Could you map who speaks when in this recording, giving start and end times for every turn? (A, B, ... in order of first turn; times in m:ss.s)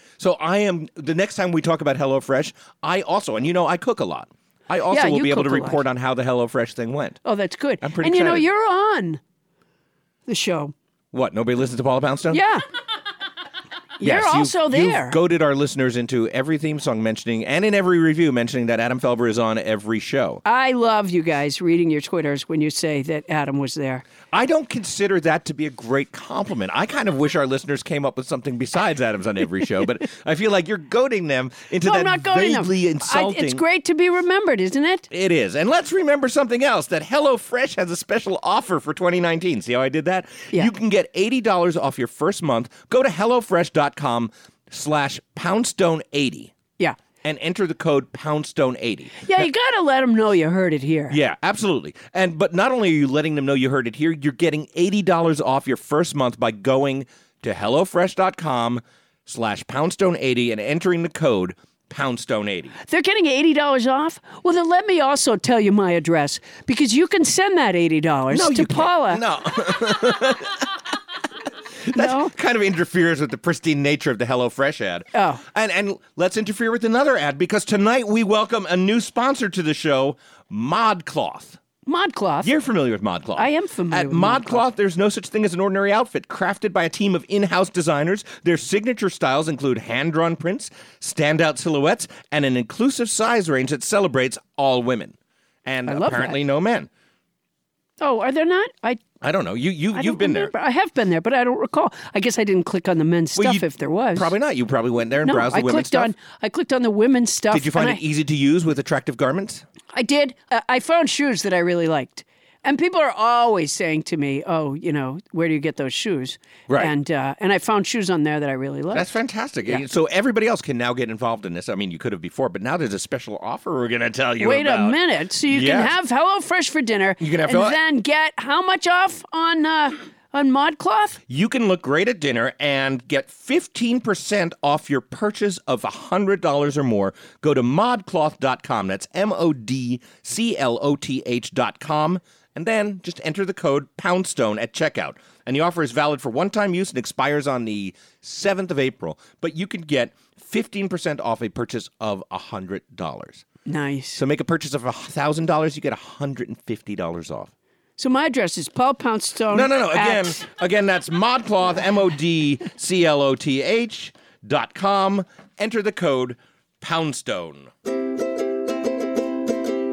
0:00.2-0:07.2 A
0:04.9-0:05.8 B
0:07.2-0:09.2 B
0:07.8-0:08.4 A
0:10.3-0:10.7 B
0:11.1-0:12.4 A
0:12.3-0:12.6 B
0:14.0-0:15.2 B
0:14.0-0:20.4 A
0:20.4-0:24.0 B
0:24.3-0:33.6 A
0:31.8-0:35.1 B
0:35.1-0:46.5 A
0:47.2-0:49.4 A
0:49.2-0:51.2 B
0:51.1-1:02.7 A
1:02.9-1:09.2 B
1:08.3-1:10.8 A
1:11.8-1:21.6 A
1:11.9-1:12.3 B
1:15.1-1:15.4 B
1:21.8-1:22.5 B
1:22.4-1:36.9 A
1:23.4-1:24.6 B
1:35.9-1:36.4 B
1:38.0-1:39.0 B
1:39.2-1:40.5 A
1:39.9-1:44.3 B
1:43.4-1:46.1 A
1:45.2-1:48.0 B
1:47.5-1:49.6 A
1:49.9-1:59.1 B
1:56.7-1:56.9 A
1:58.9-2:05.9 A
2:04.4-2:11.2 B
2:07.2-2:07.8 A
2:11.3-2:33.4 A
2:33.6-2:34.2 B
2:34.1-2:37.5 A
2:38.0-2:40.4 B
2:39.5-2:47.7 A